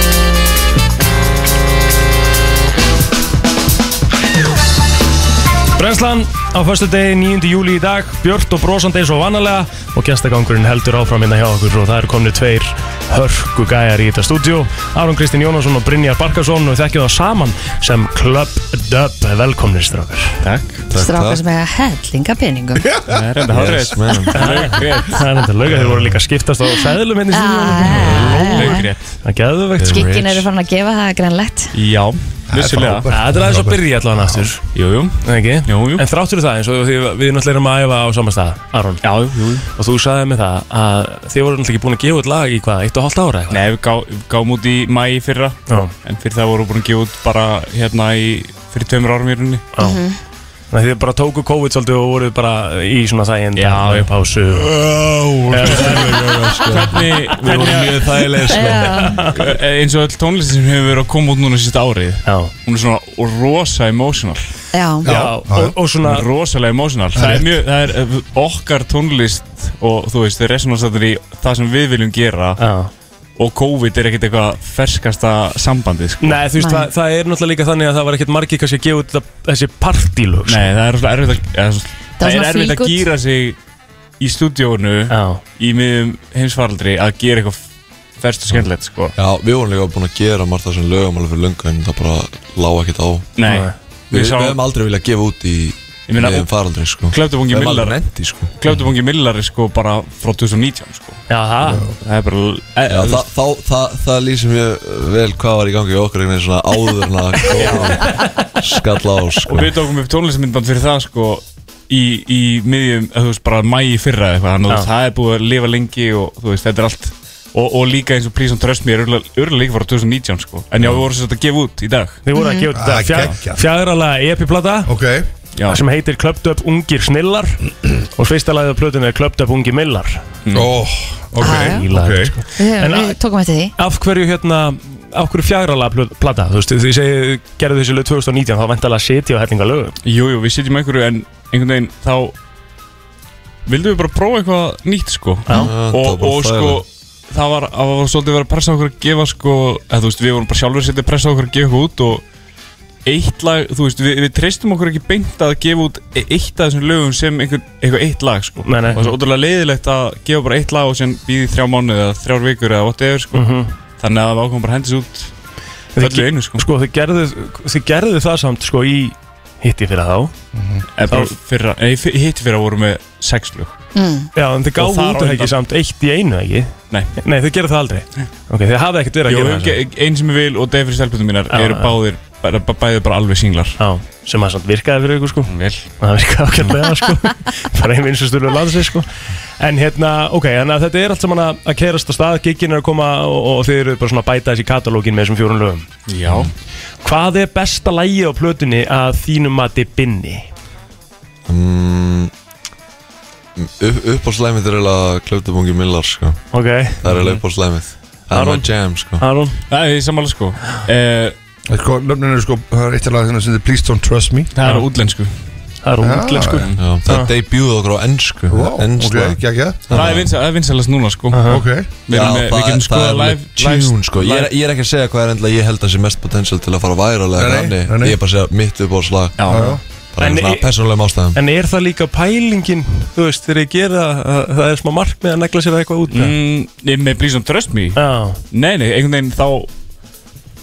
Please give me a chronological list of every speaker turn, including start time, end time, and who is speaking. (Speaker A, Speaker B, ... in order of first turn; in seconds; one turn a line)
Speaker A: 5.8-20.4
Speaker B: 20.4-20.9
Speaker C: 20.9-21.4
Speaker D: 20.9-22.9
Speaker B: 23.1-25.3
Speaker C: 23.5-24.7
Speaker A: 24.3-30.4
Speaker E: 25.8-26.1
Speaker D: 27.3-28.9
Speaker B: 28.2-29.2
Speaker C: 29.8-30.4
Speaker D: 29.8-31.7
Speaker B: 31.7-33.1
Speaker E: 32.5-34.5
Speaker A: 33.1-34.6
Speaker B: 34.7-36.0
Speaker A: 35.2-39.0
Speaker B: 39.0-39.6
Speaker A: 39.7-43.6
Speaker B: 43.5-49.6
Speaker A: 49.7-50.0
Speaker D: 49.8-50.2
Speaker A: 50.7-54.8
Speaker B: 53.5-58.5
Speaker A: 55.5-57.7
Speaker C: 56.1-59.0
Speaker D: 58.5-59.2
Speaker A: 58.6-59.5
Speaker B: 59.3-64.4
Speaker A: 62.2-62.5
Speaker D: 64.7-65.1
Speaker A: 65.0-66.3
Speaker E: 65.0-65.8
Speaker B: 66.0-72.6
Speaker E: 67.2-67.5
Speaker A: 72.6-72.9
Speaker B: 73.4-76.4
Speaker A: 76.2-80.7
Speaker D: 76.6-76.9
Speaker B: 80.5-83.6
Speaker D: 82.2-83.0
Speaker B: 84.2-87.6
Speaker A: 85.1-85.4
Speaker B: 88.2-89.2
Speaker C: 89.2-93.3
Speaker B: 93.4-94.6
Speaker A: 93.5-93.7
Speaker C: 94.1-98.5
Speaker B: 96.1-101.2
Speaker A: 101.3-101.8
Speaker B: 102.0-103.3
Speaker C: 102.9-109.7
Speaker B: 107.5-108.0
Speaker B: 109.5-122.2
Speaker A: 122.2-124.9
Speaker D: 122.3-122.7
Speaker E: 122.7-123.6
Speaker E: 124.9-125.3
Speaker B: 125.5-125.8
Speaker A: 125.7-130.3
Speaker B: 130.4-130.7
Speaker E: 130.5-132.3
Speaker D: 131.4-131.9
Speaker A: 131.4-133.2
Speaker D: 132.6-133.7
Speaker A: 133.8-139.9
Speaker B: 140.0-142.3
Speaker B: 143.7-152.2
Speaker A: 145.5-145.7
Speaker C: 145.5-146.8
Speaker B: 153.1-165.3
Speaker A: 158.6-159.2
Speaker A: 163.3-163.7
Speaker A: 165.9-170.4
Speaker B: 166.0-166.7
Speaker E: 170.5-170.8
Speaker B: 170.9-173.8
Speaker A: 171.1-171.4
Speaker D: 173.9-174.3
Speaker A: 174.3-179.8
Speaker B: 174.8-175.6
Speaker B: 179.3-183.8
Speaker A: 181.5-182.0
Speaker A: 183.8-195.9
Speaker B: 185.4-185.9
Speaker B: 196.1-196.5
Speaker A: 197.0-200.5
Speaker C: 201.5-202.3
Speaker C: 203.6-206.4
Speaker A: 206.5-207.1
Speaker C: 207.0-209.2
Speaker E: 207.1-207.4
Speaker A: 208.3-209.6
Speaker B: 209.7-211.3
Speaker E: 211.7-214.5
Speaker B: 214.5-215.3
Speaker A: 215.8-217.3
Speaker E: 216.0-216.7
Speaker C: 216.8-220.3
Speaker E: 218.5-220.0
Speaker B: 219.9-224.5
Speaker A: 221.3-221.6
Speaker E: 221.5-222.0
Speaker C: 222.1-229.6
Speaker E: 227.4-228.2
Speaker B: 229.4-229.8
Speaker E: 229.5-229.8
Speaker A: 229.6-230.8
Speaker C: 230.1-231.4
Speaker A: 231.3-236.4
Speaker B: 236.1-239.7
Speaker A: 237.9-238.4